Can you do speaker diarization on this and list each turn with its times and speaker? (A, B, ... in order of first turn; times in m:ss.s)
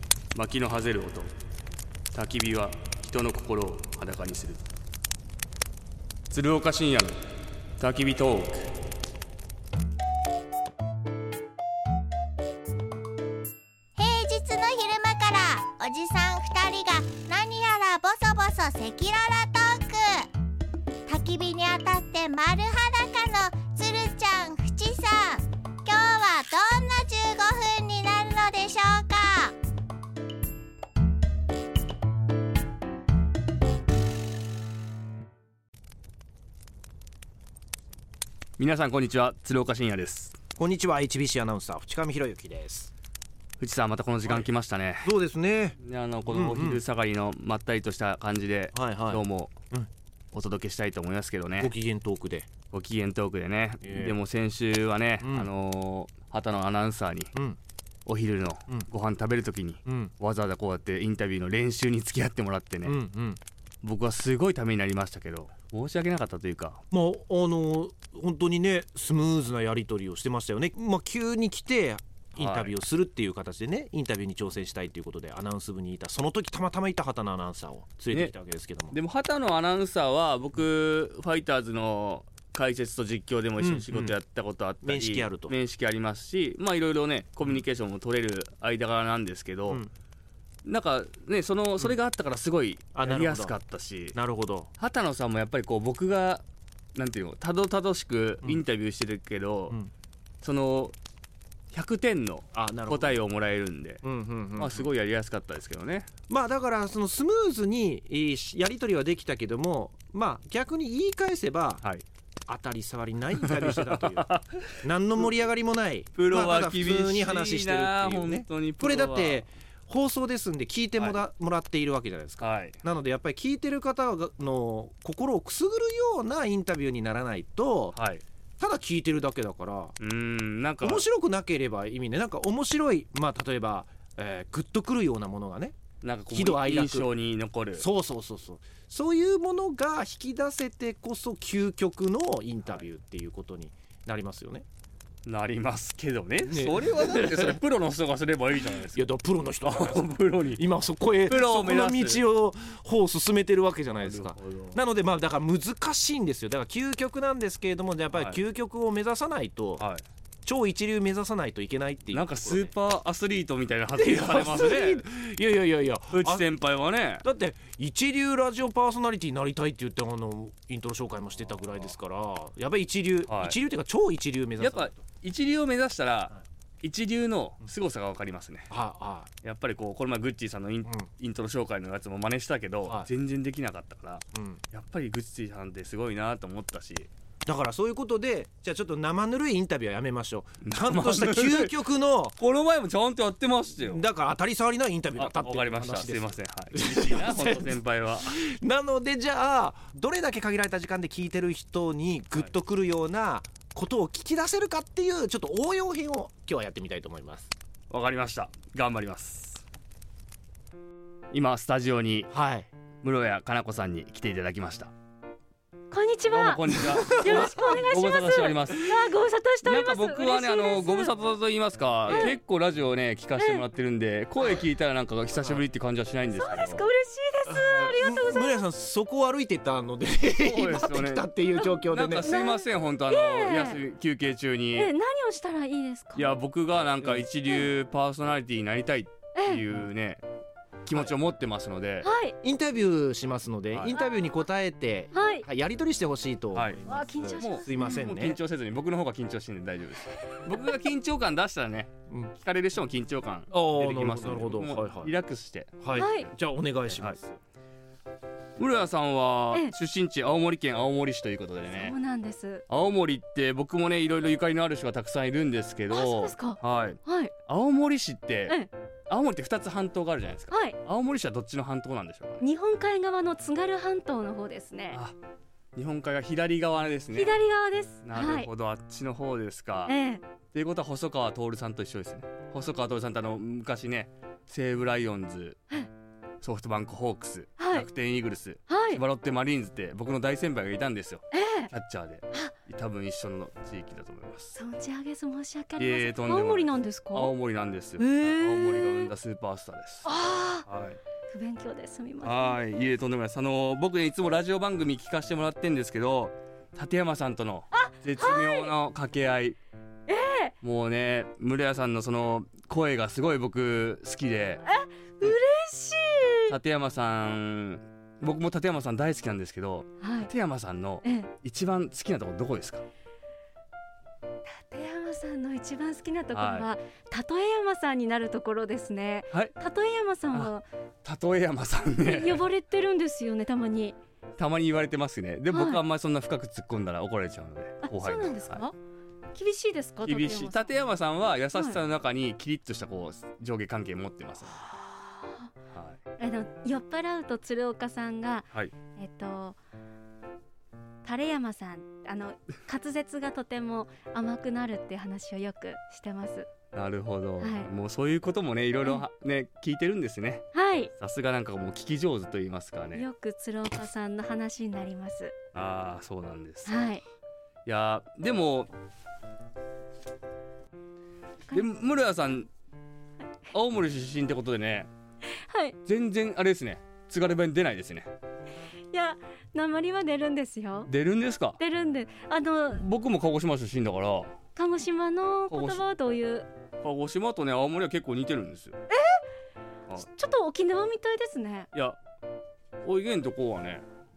0:00.3-0:01.3 A
0:02.1-0:04.6 A
0:06.3-0:07.2 A
0:07.8-0:08.7 A
0:14.0-0:20.3 B
0:21.1-0:29.6 B
0:38.6-0:40.4 A
0:40.6-0:42.9 C
0:43.6-0:45.1 A
0:45.0-0:46.8 C
0:45.8-0:49.5 A
0:48.7-0:49.9 C
0:50.3-0:51.7 A
0:51.6-0:52.5 C
0:52.7-0:57.3 A
0:53.8-0:54.2 C
0:55.2-0:55.5 C
0:58.1-1:03.0 A
0:59.8-1:00.1 C
1:02.8-1:03.4 C
1:03.8-1:06.8 A
1:06.9-1:19.0 C
1:12.4-1:12.7 A
1:18.9-1:29.8 A
1:23.6-1:24.2 C
1:24.8-1:25.6 C
1:30.6-1:34.2 A
1:33.0-1:33.6 C
1:34.1-1:34.7 C
1:34.8-1:36.4 A
1:37.0-1:39.8 A
1:40.4-1:41.0 A
1:41.7-1:44.0 A
1:42.6-1:43.2 C
1:44.0-1:44.9 C
1:44.6-1:46.1 A
1:46.3-1:51.8 C
1:52.5-1:54.3 C
1:53.4-1:54.8 A
1:54.8-2:08.0 C
1:56.2-1:59.4 A
2:02.4-2:02.8 A
2:07.9-2:08.2 A
2:08.6-2:10.0 C
2:10.0-2:11.1 A
2:10.8-2:15.8 C
2:16.0-2:17.9 A
2:16.3-2:17.1 C
2:17.8-2:24.7 C
2:25.3-2:29.1 A
2:26.4-2:27.6 C
2:28.7-2:39.8 C
2:29.6-2:30.6 A
2:31.3-2:32.2 A
2:34.0-2:34.8 A
2:38.1-2:38.4 A
2:39.8-2:40.0 A
2:40.4-2:42.7 C
2:42.1-2:45.0 A
2:43.9-2:46.5 C
2:46.1-2:47.2 A
2:47.2-2:55.0 C
2:53.3-2:53.6 A
2:54.6-2:58.7 A
2:58.7-2:59.3 C
2:59.4-3:07.1 A
3:04.4-3:04.6 C
3:07.5-3:12.4 C
3:10.6-3:11.8 A
3:12.4-3:14.0 A
3:13.8-3:27.5 C
3:15.2-3:18.4 A
3:27.9-3:29.6 A
3:31.3-3:32.3 A
3:32.3-3:32.7 C
3:33.0-3:34.9 A
3:35.9-3:41.1 D
3:36.2-3:38.9 A
3:36.9-3:37.6 C
3:39.6-3:46.8 A
3:42.1-3:42.4 C
3:42.1-3:42.4 D
3:43.4-3:43.6 D
3:45.4-3:45.6 C
3:46.3-3:48.6 D
3:47.5-3:52.3 C
3:50.4-3:51.3 A
3:51.6-3:53.8 D
3:51.9-3:54.9 A
3:54.8-3:56.4 D
3:56.2-4:00.2 A
3:59.4-3:59.6 D
4:00.8-4:02.1 A
4:02.0-4:02.4 D
4:02.4-4:08.4 C
4:05.1-4:05.5 D
4:06.6-4:15.8 A
4:06.9-4:08.0 D
4:13.5-4:15.1 C
4:15.8-4:17.4 C
4:16.0-4:16.3 D
4:18.6-4:22.0 A
4:21.7-4:22.6 D
4:22.7-4:28.6 A
4:25.9-4:27.3 D
4:29.1-4:32.4 A
4:30.5-4:30.8 D
4:32.4-4:35.0 D
4:35.8-4:37.4 A
4:37.1-4:38.5 D
4:38.0-4:40.0 A
4:39.9-4:40.2 D
4:40.5-4:45.6 A
4:46.4-4:54.6 A
4:47.6-4:47.9 D
4:48.7-4:49.0 D
4:51.3-4:51.7 D
4:54.6-4:57.3 D
4:55.8-5:00.1 A
4:58.0-4:59.1 D
5:00.1-5:00.7 D
5:00.7-5:01.0 A
5:01.3-5:02.6 D
5:02.2-5:09.6 A
5:07.7-5:08.7 D
5:10.1-5:10.5 D
5:10.6-5:14.6 A
5:14.7-5:16.6 D
5:16.5-5:22.8 A
5:20.0-5:20.3 D
5:21.0-5:21.3 D
5:24.6-5:30.7 D
5:26.3-5:26.7 A
5:31.0-5:32.4 A
5:32.0-5:34.0 D
5:34.4-5:38.7 A
5:35.5-5:35.8 D
5:37.8-5:38.8 D
5:39.3-5:40.8 D
5:40.0-5:44.6 A
5:41.5-5:41.8 D
5:44.7-5:45.4 D
5:45.7-5:46.0 A
5:46.2-5:49.6 D
5:51.0-5:56.5 D
5:56.7-6:00.5 A
5:57.4-5:57.7 D
6:00.5-6:00.9 D
6:01.0-6:03.0 A
6:02.9-6:05.4 D
6:05.5-6:06.7 A
6:06.7-6:07.0 D
6:07.7-6:08.7 A
6:11.5-6:12.5 A
6:13.5-6:14.9 A
6:15.5-6:15.8 D
6:15.8-6:18.1 A
6:18.9-6:20.9 D
6:20.9-6:21.6 A
6:21.6-6:22.9 D
6:22.7-6:24.3 A
6:24.6-6:26.5 D
6:25.5-6:25.8 A
6:26.8-6:28.8 A
6:28.9-6:29.2 D
6:30.0-6:31.7 D
6:31.7-6:32.0 A
6:32.8-6:33.8 A